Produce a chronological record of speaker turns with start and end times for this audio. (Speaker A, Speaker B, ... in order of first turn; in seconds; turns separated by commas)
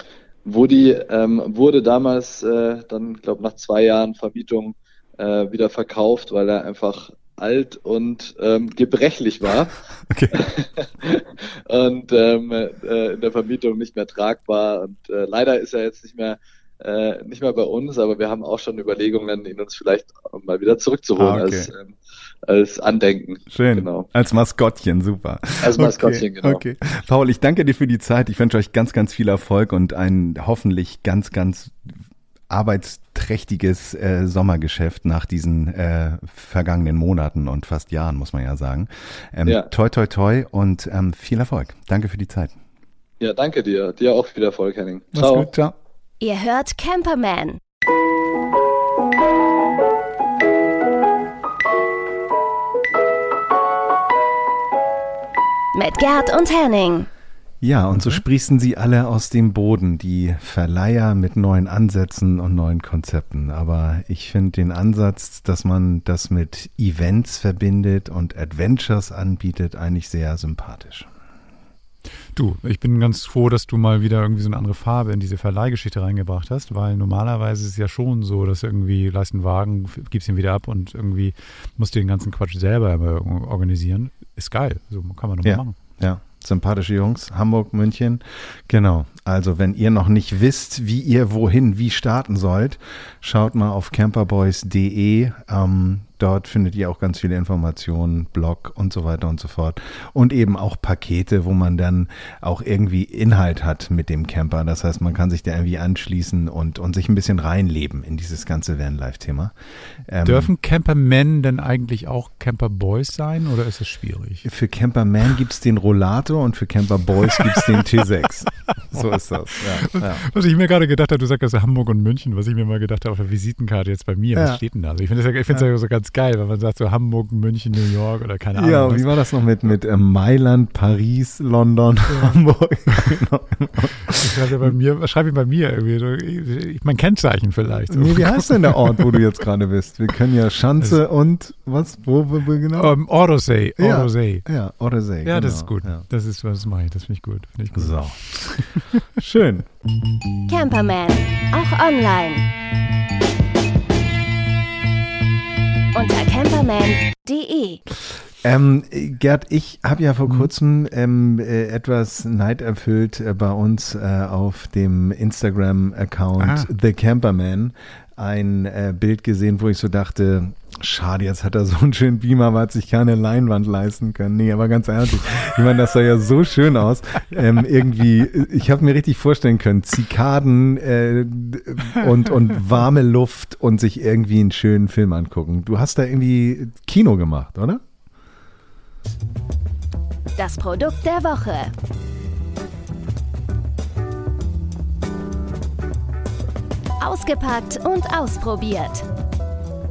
Speaker A: 0.5-9.7, Speaker B: 10.1-10.5, Speaker A: 10.3-24.1, Speaker B: 21.2-21.7, Speaker B: 23.5-31.9, Speaker A: 25.6-26.6, Speaker B: 32.5-42.6, Speaker A: 43.2-45.5, Speaker B: 45.1-45.8, Speaker C: 46.2-47.6, Speaker C: 55.8-57.1, Speaker B: 57.6-71.1, Speaker D: 72.3-85.8, Speaker B: 85.4-110.5, Speaker D: 110.2-114.5, Speaker B: 114.5-120.2, Speaker D: 117.4-117.7, Speaker D: 119.8-129.1, Speaker B: 124.3-124.6, Speaker B: 128.6-134.7, Speaker D: 132.1-133.2, Speaker D: 134.1-139.2, Speaker B: 137.9-142.9, Speaker D: 142.7-144.5, Speaker B: 143.8-146.0, Speaker D: 145.2-149.1, Speaker B: 147.7-148.6, Speaker B: 149.2-149.7, Speaker C: 150.5-152.5, Speaker C: 155.9-157.8, Speaker B: 158.4-187.8, Speaker D: 166.4-166.7, Speaker C: 190.4-191.7, Speaker C: 197.0-199.1